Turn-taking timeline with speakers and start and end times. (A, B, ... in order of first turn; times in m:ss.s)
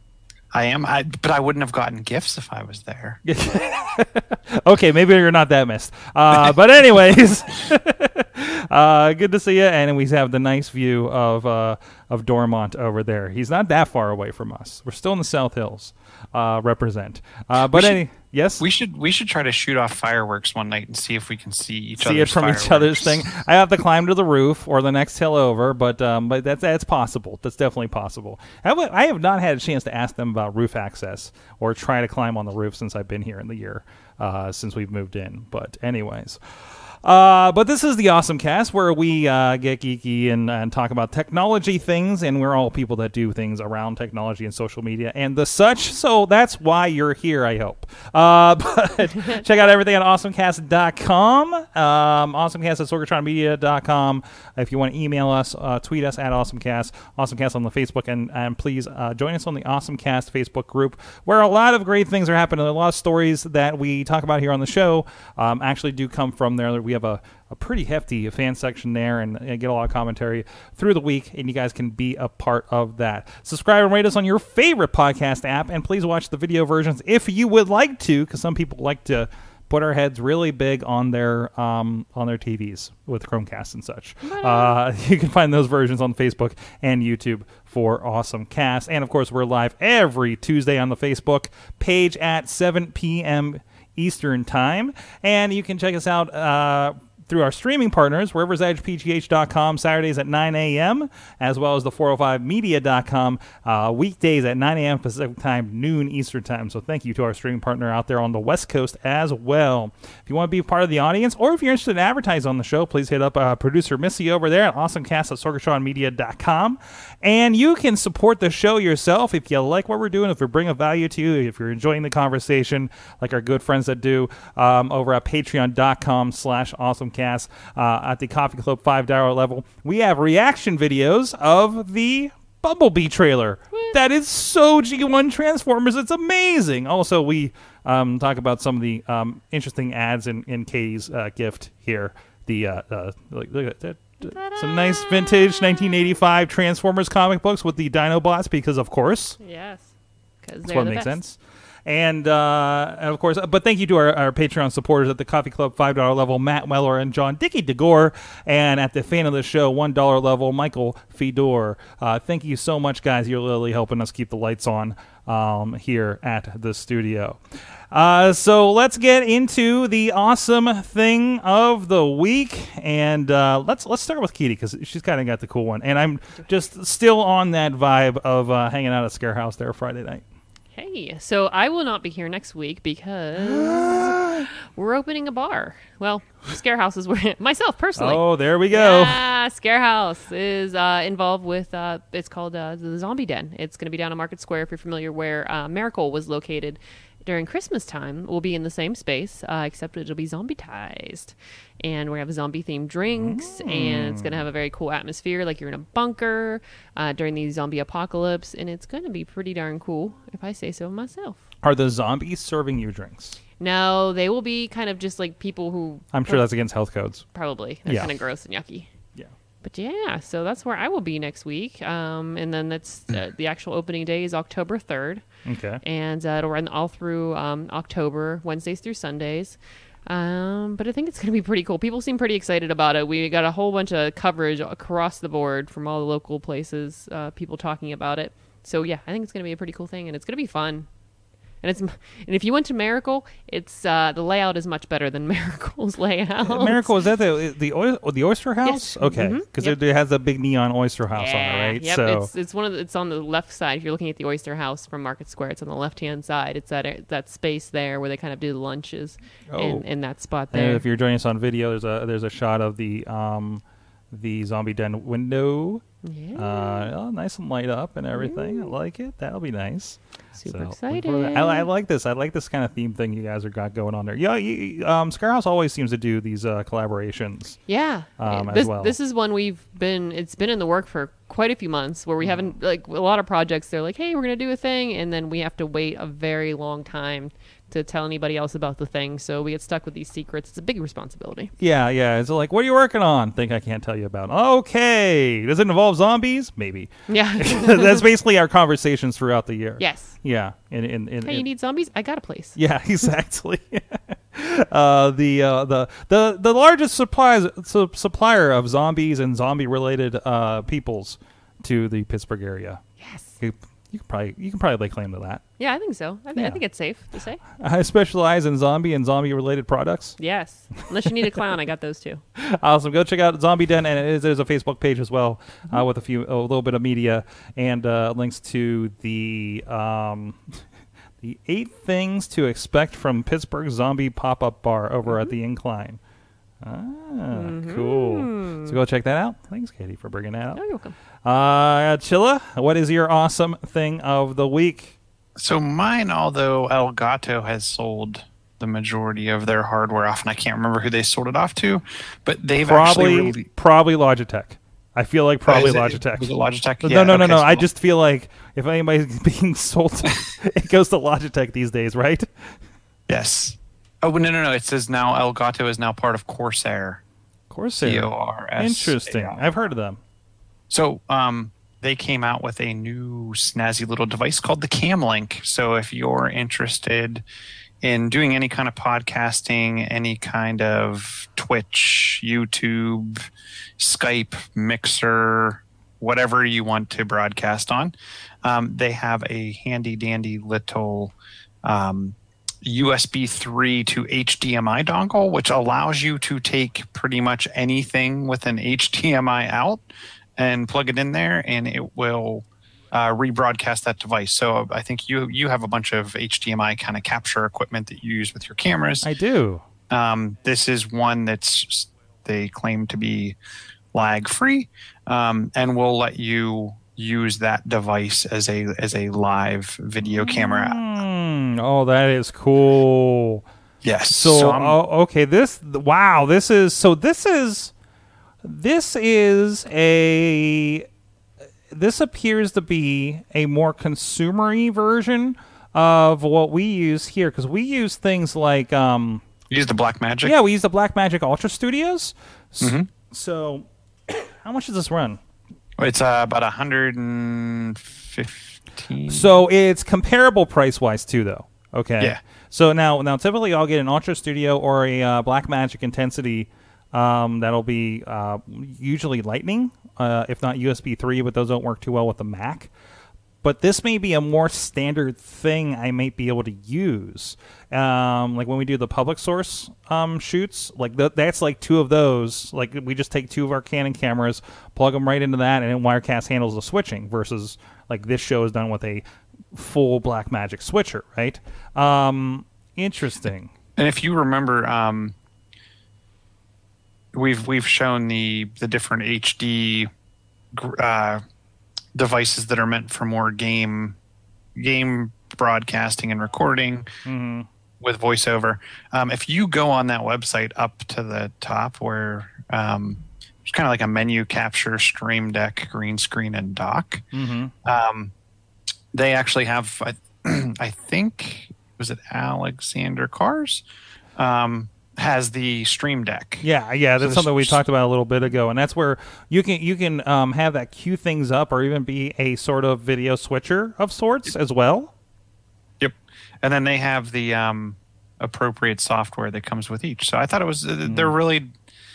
0:00.5-0:03.2 A
0:03.2-0:18.6 B
0:17.7-0:18.0 A
0:18.6-0:23.2 A
0:22.0-2:29.4 B
1:24.2-1:24.8 C
2:24.2-2:25.9 C
2:29.4-2:29.9 C
2:30.4-2:31.2 C
2:30.6-2:47.4 B
2:47.9-3:00.2 B
3:00.8-3:31.4 C
3:03.4-3:04.5 B
3:08.0-3:09.2 B
3:23.1-3:24.4 B
3:31.6-3:33.4 B
3:33.6-3:36.4 C
3:36.1-3:37.2 B
3:37.3-3:38.9 C
3:37.9-3:38.1 B
3:39.6-3:45.2 C
3:45.4-3:45.8 B
3:45.8-4:00.9 C
4:01.6-4:06.9 C
4:06.5-4:12.3 B
4:08.6-4:09.8 C
4:11.1-4:20.8 C
4:19.5-4:19.8 B
4:20.5-4:25.8 B
4:26.0-4:26.9 C
4:26.4-4:37.6 B
4:28.1-4:28.7 C
4:30.4-4:31.7 C
4:37.7-4:51.5 C
4:38.2-4:39.0 B
4:51.6-5:01.4 B
4:57.1-4:58.0 C
4:59.8-5:00.2 C
5:01.2-5:02.6 C
5:02.6-5:12.8 B
5:13.0-5:13.3 C
5:13.4-5:15.4 B
5:15.6-5:17.4 C
5:16.4-5:16.6 B
5:17.6-5:20.2 B
5:20.2-5:22.2 C
5:22.4-5:30.4 B
5:31.2-5:36.0 B
5:36.6-5:40.6 B
5:37.3-5:38.8 C
5:40.6-5:41.0 C
5:41.2-5:45.0 B
5:45.4-5:53.4 A
5:52.7-6:02.3 B
5:55.5-5:57.7 A
6:03.1-6:07.0 A
6:07.5-6:10.0 B
6:07.8-6:09.5 A
6:10.7-6:17.2 A
6:17.8-6:23.3 A
6:23.8-6:31.1 A
6:31.6-6:39.8 A
6:40.4-6:49.1 A
6:49.0-6:49.6 B
6:49.9-6:53.4 A
6:53.9-7:00.8 A
7:00.0-7:03.4 B
7:03.8-7:04.8 A
7:04.1-7:07.7 B
7:08.4-7:10.9 B
7:11.7-7:19.2 B
7:19.5-7:20.4 A
7:20.2-7:25.2 B
7:22.6-7:22.9 A
7:25.8-7:29.3 A
7:29.1-7:42.7 B
7:43.4-8:03.5 B
8:03.8-8:05.2 A
8:07.1-8:09.9 A
8:10.5-8:11.2 A
8:11.9-8:14.0 A
8:14.6-8:16.9 A
8:17.0-8:17.5 B
8:17.8-8:27.0 A
8:27.1-8:27.5 B
8:27.6-8:28.1 A
8:28.9-8:33.6 A
8:34.2-8:36.4 A
8:36.4-8:44.9 B
8:37.0-8:37.6 A
8:45.8-8:51.5 A
8:50.8-8:51.2 B